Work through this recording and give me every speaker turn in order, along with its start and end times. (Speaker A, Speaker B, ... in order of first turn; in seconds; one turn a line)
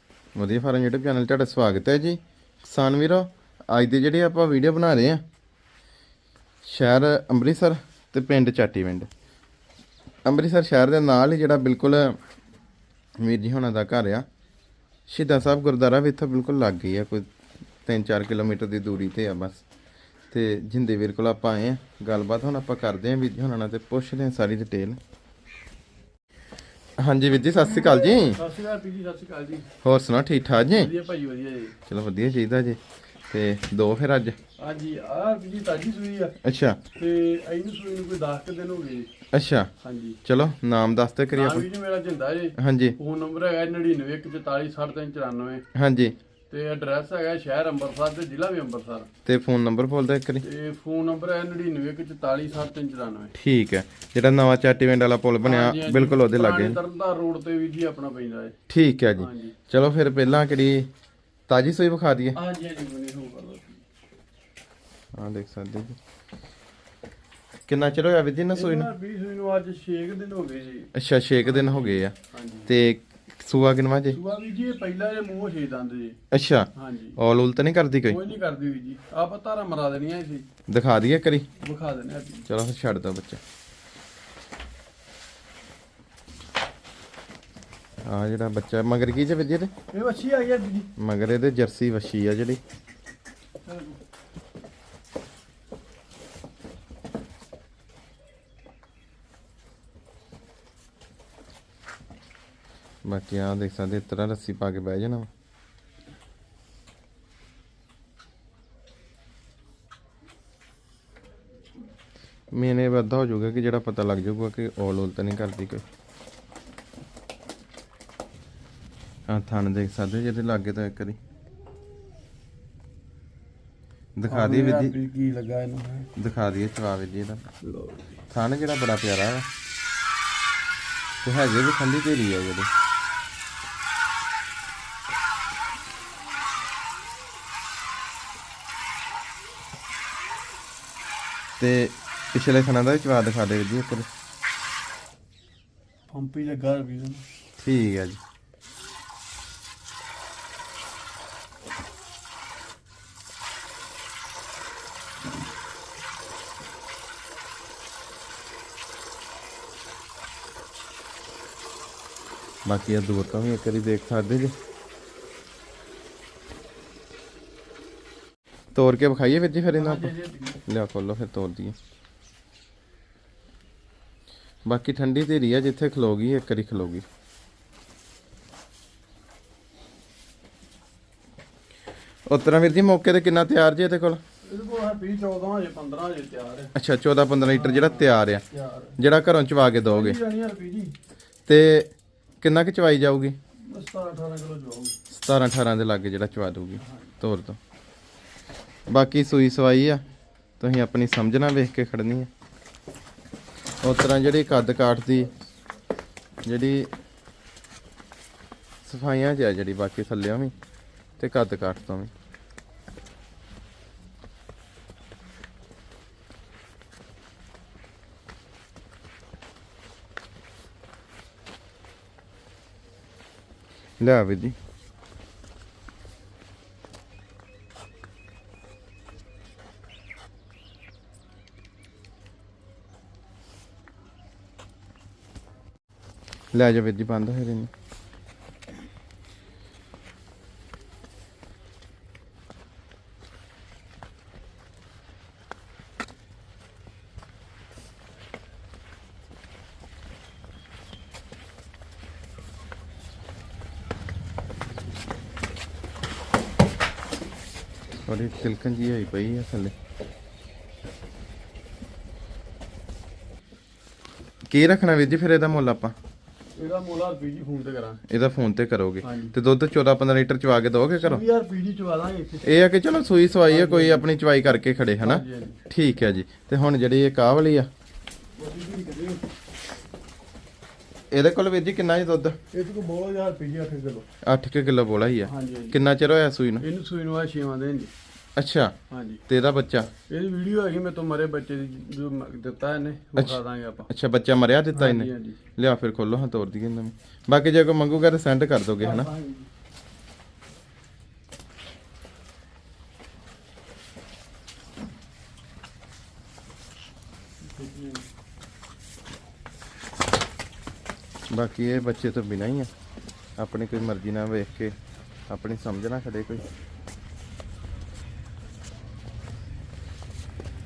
Speaker A: 0.3-5.2
Speaker A: 6.6-9.1
Speaker A: 10.2-12.2
Speaker A: 13.2-14.2
Speaker A: 15.1-17.2
Speaker A: 17.8-19.6
Speaker A: 20.3-25.0
Speaker A: 27.0-28.4
Speaker B: 27.7-29.7
Speaker A: 29.8-30.9
Speaker B: 30.6-31.7
Speaker A: 31.9-34.4
Speaker B: 34.6-36.4
Speaker A: 36.4-36.8
Speaker B: 37.0-39.1
Speaker A: 39.3-39.7
Speaker B: 39.8-40.2
Speaker A: 40.2-41.7
Speaker B: 41.3-45.6
Speaker A: 42.6-43.0
Speaker A: 45.7-46.1
Speaker B: 46.5-49.1
Speaker A: 49.2-50.4
Speaker B: 50.4-53.3
Speaker A: 53.3-56.8
Speaker B: 55.4-58.5
Speaker A: 58.7-60.9
Speaker B: 59.2-59.5
Speaker A: 61.5-62.4
Speaker B: 62.3-63.8
Speaker A: 65.1-66.0
Speaker A: 67.7-68.9
Speaker B: 68.5-72.7
Speaker A: 70.9-72.1
Speaker A: 72.7-74.2
Speaker B: 74.1-76.2
Speaker A: 76.3-78.2
Speaker B: 76.7-77.2
Speaker B: 78.0-80.5
Speaker A: 80.7-81.5
Speaker B: 81.6-82.5
Speaker A: 82.5-83.4
Speaker A: 88.0-89.7
Speaker B: 89.9-90.9
Speaker A: 91.0-92.6
Speaker B: 93.6-94.0
Speaker A: 103.0-105.3
Speaker A: 112.5-115.8
Speaker A: 119.3-121.2
Speaker A: 124.2-125.0
Speaker B: 124.3-126.1
Speaker A: 126.2-127.4
Speaker B: 127.6-128.2
Speaker A: 128.3-129.5
Speaker A: 131.2-132.7
Speaker A: 141.6-144.1
Speaker B: 146.1-147.2
Speaker A: 147.6-148.2
Speaker A: 162.7-164.5
Speaker A: 168.7-170.1
Speaker B: 169.7-170.6
Speaker A: 170.7-171.8
Speaker A: 174.7-177.0
Speaker A: 182.3-184.2
Speaker B: 184.4-186.7
Speaker A: 186.7-188.4
Speaker B: 187.4-189.0
Speaker A: 189.0-190.2
Speaker B: 189.8-190.9
Speaker A: 191.5-193.4
Speaker B: 193.7-194.9
Speaker A: 195.1-197.6
Speaker B: 196.8-197.1
Speaker A: 198.9-200.0
Speaker A: 200.6-202.3
Speaker A: 203.8-205.3
Speaker A: 206.4-206.9
Speaker A: 208.8-210.5
Speaker A: 211.2-212.1
Speaker A: 224.0-224.6
Speaker A: 236.5-237.7
Speaker A: 258.1-259.7
Speaker A: 264.5-265.9
Speaker B: 266.6-268.0
Speaker A: 268.1-271.2
Speaker B: 269.0-269.3
Speaker B: 271.0-272.5
Speaker A: 272.4-277.7
Speaker B: 273.4-274.1
Speaker B: 275.0-275.6
Speaker B: 278.4-279.2
Speaker A: 281.1-282.4
Speaker B: 282.5-284.1
Speaker A: 284.2-286.6
Speaker B: 285.2-285.8
Speaker B: 286.6-287.9
Speaker A: 288.4-288.7
Speaker B: 288.9-289.2
Speaker A: 289.3-289.9
Speaker B: 290.1-293.9
Speaker A: 293.1-299.1
Speaker B: 294.7-295.4
Speaker B: 298.8-299.5
Speaker B: 307.5-308.1
Speaker A: 311.3-312.7
Speaker A: 313.4-314.7
Speaker A: 315.3-316.4